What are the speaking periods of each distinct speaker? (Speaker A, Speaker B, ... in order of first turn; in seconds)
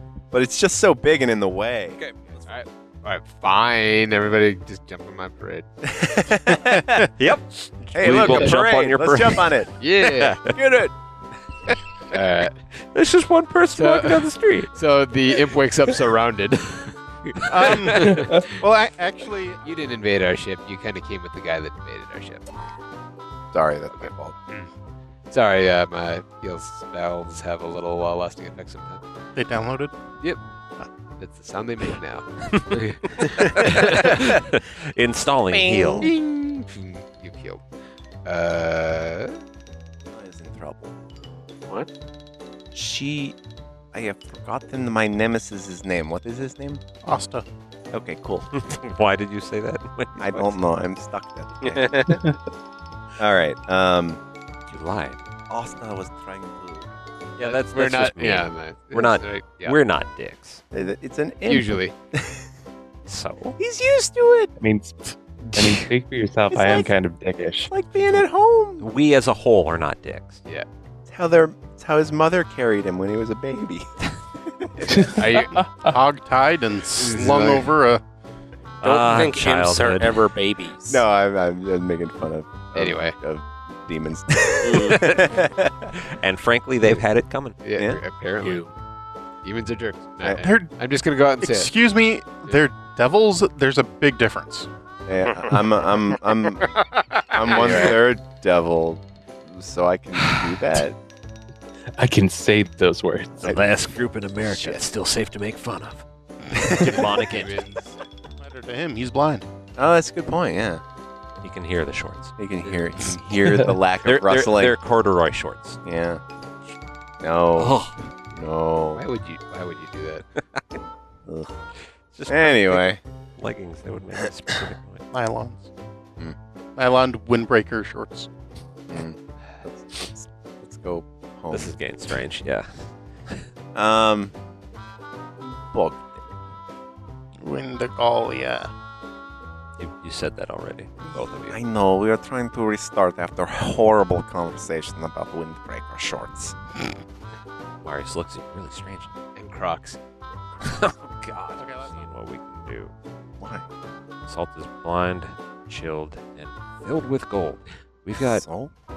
Speaker A: 0.3-2.4, 5.8-7.1, 7.9-9.7, 10.5-10.9, 23.5-24.3, 35.5-36.1, 40.1-41.0, 42.7-43.4, 43.9-46.8, 47.9-48.5, 50.2-51.9, 53.2-54.2, 55.5-56.9, 60.7-62.5, 63.6-64.5, 66.5-66.9, 67.7-68.9, 71.1-75.1, 80.9-85.9, 87.8-88.0, 95.1-96.7, 97.3-101.0, 104.4-104.8, 109.8-110.8, 112.4-114.8, 115.8-116.2, 117.2-119.0, 121.2-121.6, 122.3-123.0, 128.9-132.1, 133.7-134.3, 135.4-136.2, 141.0-146.6, 153.4-153.7, 158.3-158.7
Speaker B: 2.0-5.7, 8.0-8.6, 9.8-10.4, 12.1-12.6, 13.7-18.5, 19.6-22.4, 23.9-24.7, 25.3-29.0, 31.2-34.3, 36.0-37.6, 38.2-39.4, 57.4-59.8, 61.5-61.9, 74.9-75.6, 77.0-77.7, 82.7-83.2, 87.6-88.6, 89.4-91.7, 96.6-98.0, 106.9-107.7, 119.0-120.2, 149.3-150.0
Speaker C: 6.5-7.0, 17.5-19.6, 29.3-29.9, 47.0-47.5, 75.8-78.0, 90.3-90.7, 91.4-94.7, 106.7-109.5, 125.1-125.7, 126.8-128.3, 137.4-138.7, 151.5-152.1
Speaker D: 7.2-10.5, 12.8-14.7, 17.6-17.9, 32.5-32.8, 33.7-36.1, 48.5-50.5, 54.7-55.2, 57.4-60.6, 63.0-63.6, 68.8-70.4, 78.8-80.3, 84.8-85.4, 85.9-87.6, 103.4-107.7, 111.4-112.3, 114.0-115.8, 117.5-118.0, 122.1-122.8, 123.4-125.0, 131.5-132.7, 139.8-141.6, 147.8-149.1, 150.6-152.9, 154.2-158.4
Speaker E: 18.0-18.4, 52.1-52.4, 64.6-67.7, 74.9-75.9, 102.0-103.5
Speaker F: 51.6-52.3, 78.8-81.0, 84.6-85.0, 88.4-88.7